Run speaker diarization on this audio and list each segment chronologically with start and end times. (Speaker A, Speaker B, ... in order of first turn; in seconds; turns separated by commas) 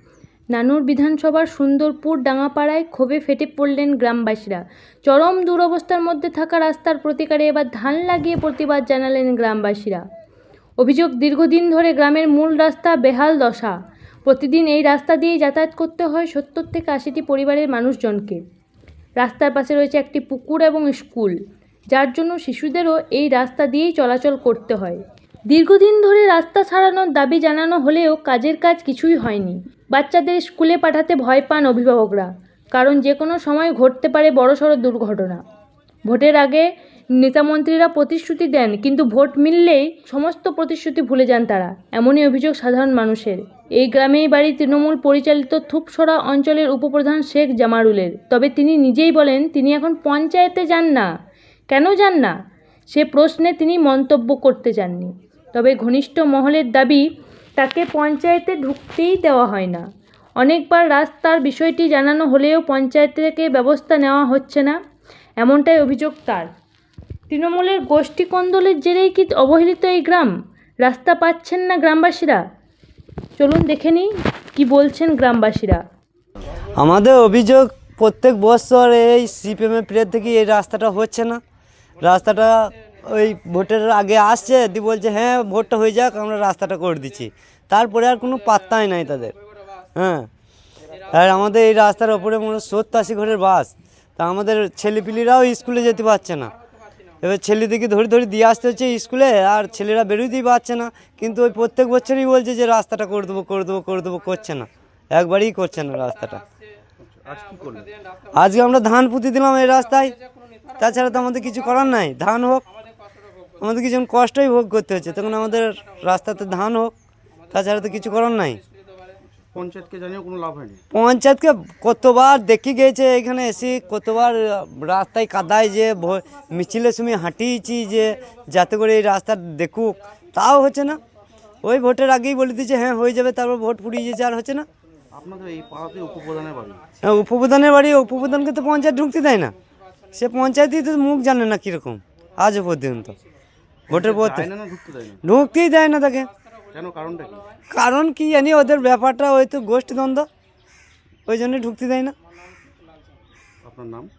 Speaker A: 0.5-10.0, Speaker A: 10.8-18.4, Speaker A: 19.2-21.4, Speaker A: 21.9-35.4, Speaker A: 36.1-36.7, Speaker A: 37.2-51.1, Speaker A: 51.7-52.3, Speaker A: 52.9-57.0, Speaker A: 57.6-59.9, Speaker A: 60.4-64.8, Speaker A: 65.4-66.5, Speaker A: 67.3-72.4, Speaker A: 73.4-75.8, Speaker B: 76.8-81.4, Speaker B: 82.0-89.4, Speaker B: 90.0-90.3, Speaker B: 91.1-96.5, Speaker B: 97.2-106.4, Speaker C: 107.0-107.9, Speaker B: 108.3-110.2, Speaker B: 110.8-112.6, Speaker B: 113.6-116.9, Speaker B: 117.5-118.6, Speaker C: 119.5-120.8, Speaker B: 120.9-131.0, Speaker B: 131.6-134.7, Speaker C: 135.1-136.8, Speaker B: 137.0-139.5, Speaker B: 140.1-143.2, Speaker B: 143.9-144.5, Speaker C: 143.9-145.2, Speaker B: 145.2-146.3, Speaker C: 146.7-147.5, Speaker B: 147.7-150.3, Speaker B: 151.3-152.1, Speaker C: 153.6-154.1